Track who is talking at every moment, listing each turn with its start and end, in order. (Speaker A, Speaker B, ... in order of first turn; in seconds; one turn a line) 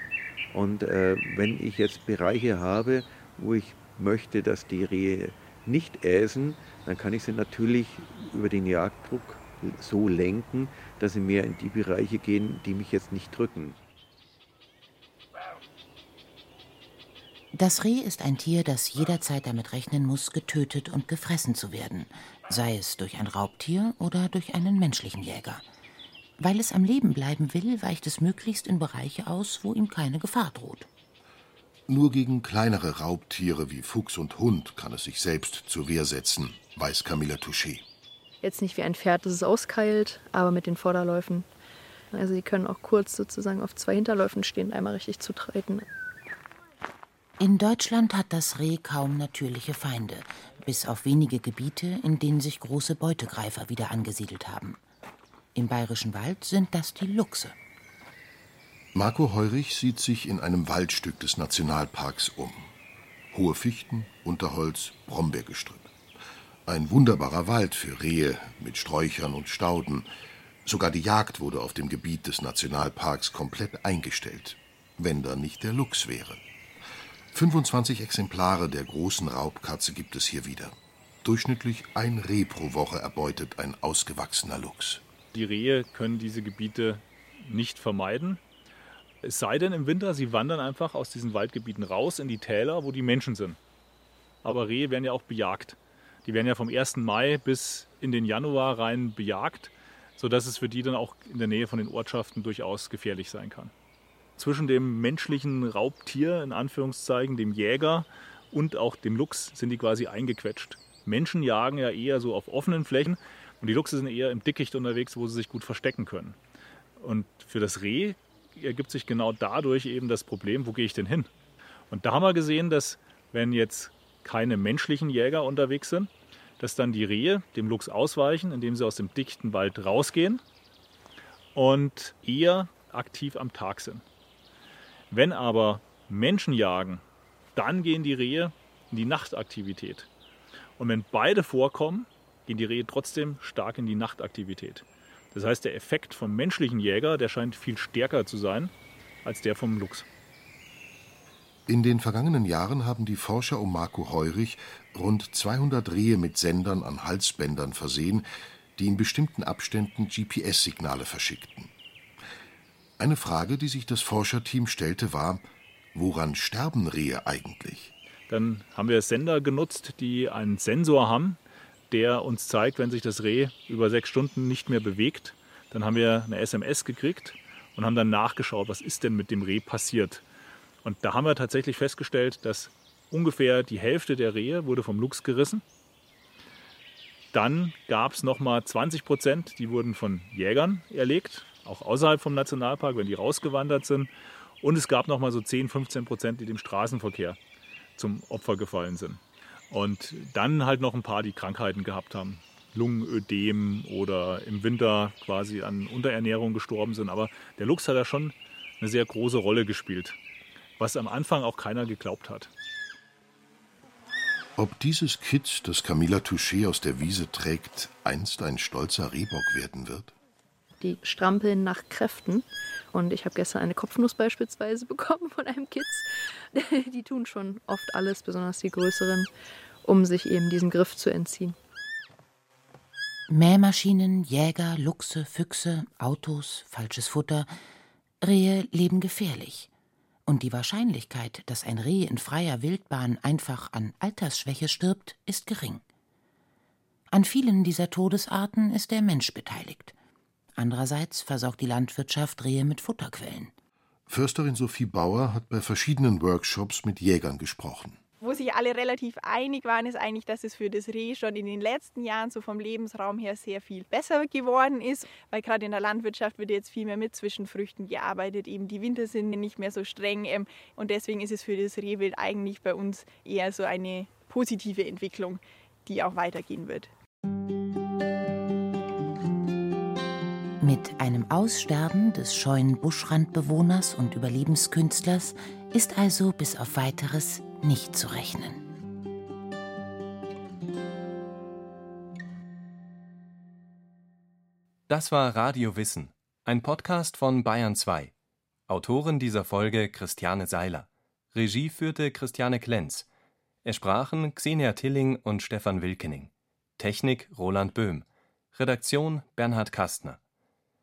Speaker A: 0.5-13.8
Speaker B: 17.5-25.6
Speaker B: 26.4-30.9
Speaker C: 31.9-37.8
Speaker D: 38.4-41.5
Speaker D: 42.1-45.8
Speaker B: 47.4-54.8
Speaker B: 55.5-57.5
Speaker C: 58.9-62.7
Speaker C: 63.3-65.9
Speaker C: 66.7-70.1
Speaker C: 70.6-76.4
Speaker C: 77.3-85.0
Speaker E: 85.3-88.4
Speaker E: 89.2-93.6
Speaker E: 94.4-103.7
Speaker E: 104.4-116.3
Speaker E: 117.0-121.3
Speaker E: 121.9-130.4
Speaker E: 131.5-134.0
Speaker E: 135.1-137.0
Speaker E: 137.6-140.1
Speaker E: 140.8-148.7
Speaker E: 149.2-150.1
Speaker C: 151.7-158.2
Speaker C: 158.8-161.7
Speaker C: 163.0-167.9
Speaker E: 168.3-171.4
Speaker E: 171.9-180.2
Speaker E: 180.8-185.6
Speaker E: 187.3-194.1
Speaker E: 194.6-197.4
Speaker E: 198.0-210.2
Speaker E: 210.8-212.5
Speaker C: 214.6-220.1
Speaker D: 220.8-229.3
Speaker D: 229.8-231.6
Speaker B: 233.3-237.5
Speaker B: 238.2-239.7
Speaker B: 240.3-245.8
Speaker B: 247.1-249.9
Speaker B: 250.6-253.5
Speaker C: 254.1-258.0
Speaker F: 258.2-276.9
Speaker B: 280.6-288.6
Speaker G: 294.9-298.1
Speaker G: 298.7-303.1
Speaker G: 303.6-310.2